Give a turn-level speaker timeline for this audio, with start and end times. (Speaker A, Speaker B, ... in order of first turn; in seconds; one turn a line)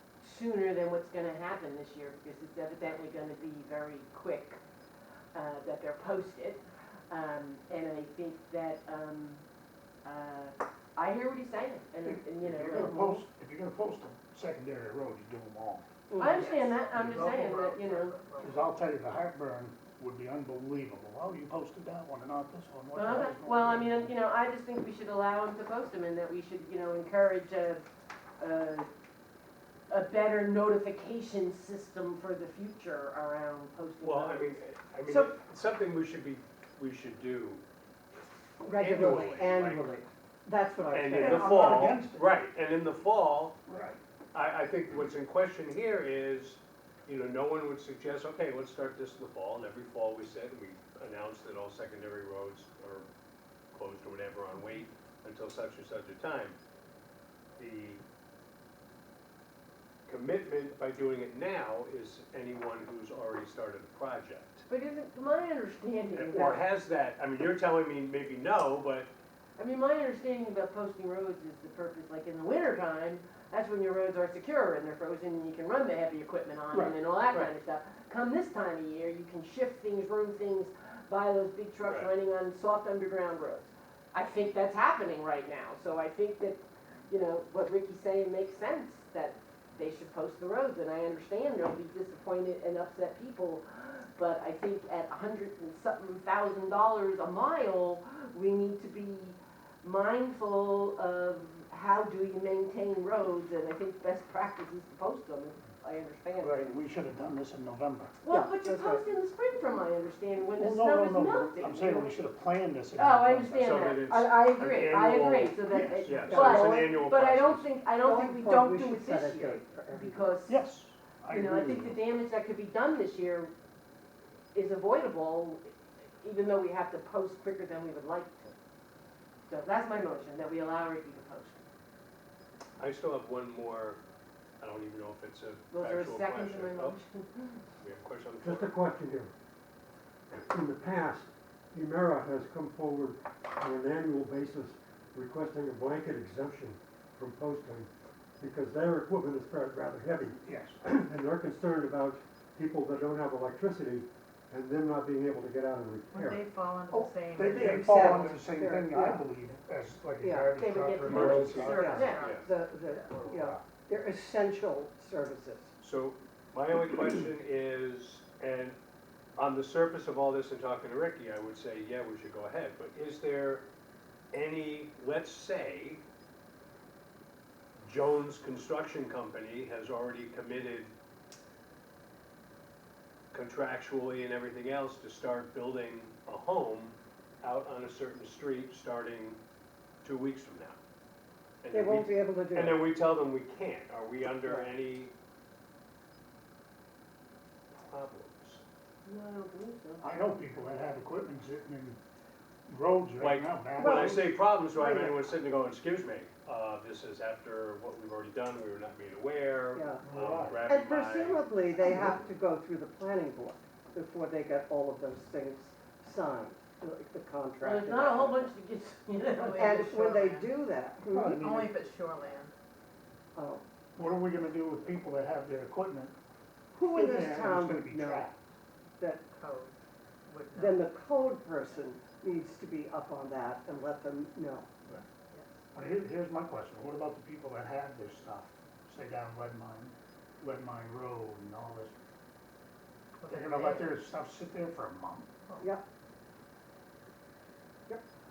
Speaker A: 0.2-4.6
Speaker A: 5.3-9.4
Speaker A: 10.1-13.2
Speaker B: 12.0-15.9
Speaker C: 16.1-16.7
Speaker A: 16.2-18.2
Speaker D: 16.3-18.7
Speaker B: 16.9-17.3
Speaker B: 18.4-24.1
Speaker A: 22.9-27.9
Speaker A: 28.4-28.9
Speaker A: 29.9-34.6
Speaker E: 34.0-37.6
Speaker C: 35.1-35.3
Speaker C: 38.6-42.1
Speaker E: 38.6-39.9
Speaker E: 40.9-43.6
Speaker B: 41.2-42.2
Speaker E: 44.3-53.1
Speaker E: 53.7-56.6
Speaker E: 57.6-58.0
Speaker E: 60.1-64.7
Speaker A: 64.7-66.6
Speaker E: 66.1-69.1
Speaker A: 69.6-106.8
Speaker E: 81.8-82.1
Speaker B: 106.4-108.2
Speaker A: 108.2-112.2
Speaker C: 108.3-109.0
Speaker B: 110.6-113.7
Speaker A: 113.0-120.6
Speaker E: 113.6-117.7
Speaker B: 115.7-116.6
Speaker C: 116.3-117.0
Speaker C: 118.0-120.3
Speaker B: 120.5-122.0
Speaker A: 121.3-123.5
Speaker A: 124.5-128.6
Speaker A: 129.5-131.6
Speaker E: 132.8-134.0
Speaker E: 134.6-137.0
Speaker A: 135.7-137.6
Speaker E: 137.8-138.7
Speaker F: 138.4-139.3
Speaker F: 140.4-156.4
Speaker B: 150.4-150.8
Speaker D: 156.1-158.3
Speaker C: 156.9-159.3
Speaker B: 157.3-162.2
Speaker C: 160.2-160.6
Speaker A: 160.6-162.3
Speaker E: 161.0-162.5
Speaker D: 161.6-162.5
Speaker C: 161.7-165.7
Speaker B: 163.2-163.6
Speaker E: 165.8-168.8
Speaker E: 169.4-173.7
Speaker E: 174.3-176.0
Speaker E: 177.8-180.9
Speaker E: 183.3-189.4
Speaker E: 190.0-190.8
Speaker E: 191.6-195.1
Speaker C: 191.7-192.8
Speaker C: 194.4-194.7
Speaker E: 197.7-198.6
Speaker A: 199.1-200.1
Speaker B: 200.0-202.0
Speaker B: 202.7-204.2
Speaker E: 203.2-211.4
Speaker C: 203.8-205.2
Speaker C: 209.8-210.0
Speaker B: 210.0-210.6
Speaker C: 210.6-218.5
Speaker A: 217.6-220.1
Speaker D: 219.4-220.5
Speaker C: 219.5-221.7
Speaker B: 221.1-221.7
Speaker D: 221.3-222.5
Speaker C: 223.3-223.6
Speaker B: 224.0-226.1
Speaker C: 226.8-228.3
Speaker B: 226.8-228.3
Speaker C: 229.0-229.2
Speaker D: 229.4-229.7
Speaker D: 230.3-230.9
Speaker C: 230.6-234.7
Speaker D: 235.3-235.6
Speaker B: 235.7-241.9
Speaker D: 243.2-243.9
Speaker B: 243.3-245.3